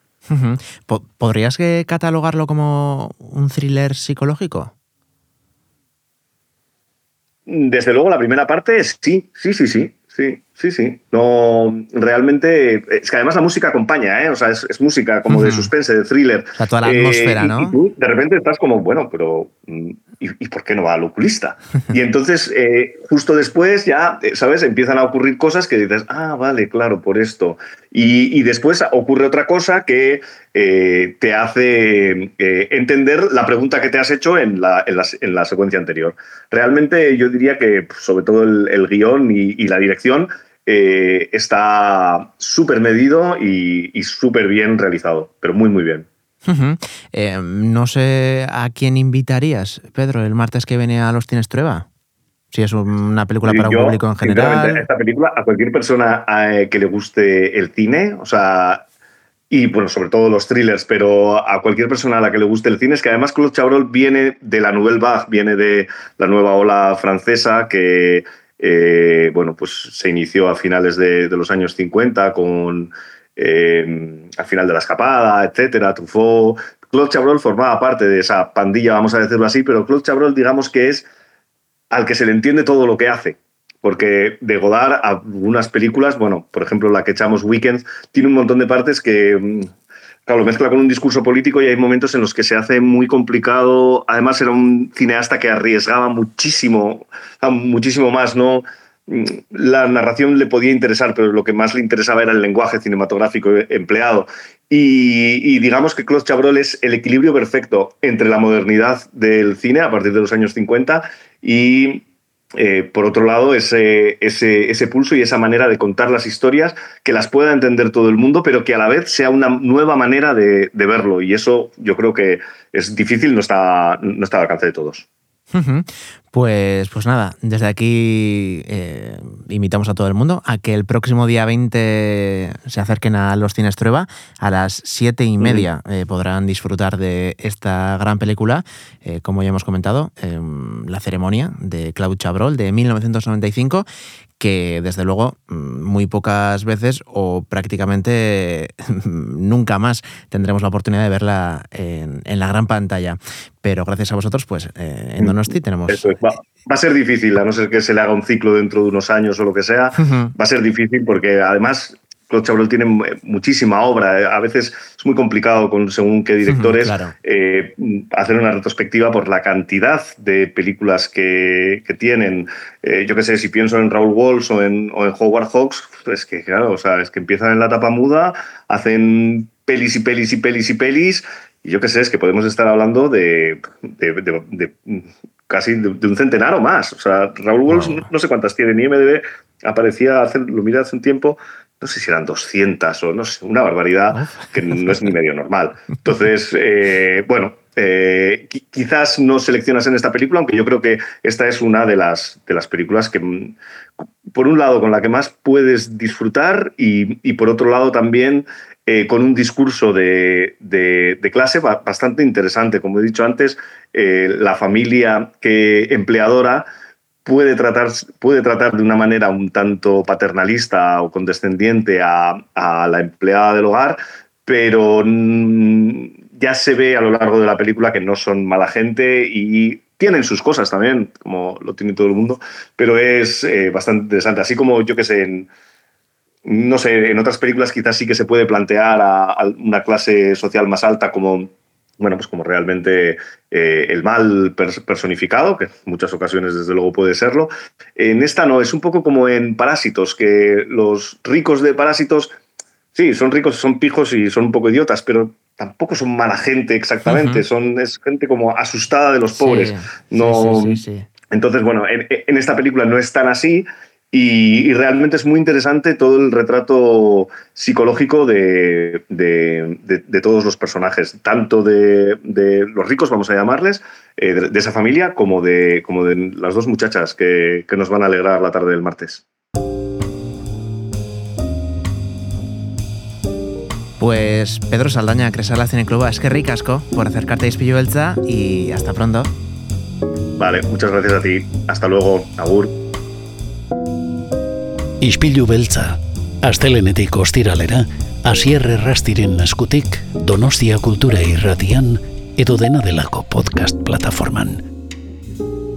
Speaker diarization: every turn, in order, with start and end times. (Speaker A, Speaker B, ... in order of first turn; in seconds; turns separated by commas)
Speaker A: 0.3-4.7, Speaker B: 7.5-46.0, Speaker A: 15.3-15.7, Speaker A: 16.6-17.7, Speaker A: 46.5-51.9, Speaker A: 52.5-54.9, Speaker B: 53.4-58.8, Speaker B: 59.5-81.1, Speaker B: 81.9-89.7, Speaker B: 90.2-112.0, Speaker B: 112.6-125.0, Speaker A: 125.5-143.9, Speaker B: 135.4-135.7, Speaker A: 144.4-156.1, Speaker B: 155.9-203.6, Speaker A: 160.0-160.3, Speaker A: 166.4-167.1, Speaker A: 187.7-188.0, Speaker B: 204.3-216.7, Speaker B: 217.2-235.5, Speaker B: 236.4-252.3, Speaker B: 252.9-260.8, Speaker A: 257.1-257.4, Speaker A: 259.3-261.1, Speaker B: 261.3-279.2, Speaker A: 284.0-289.3, Speaker B: 290.4-292.7, Speaker C: 295.0-304.6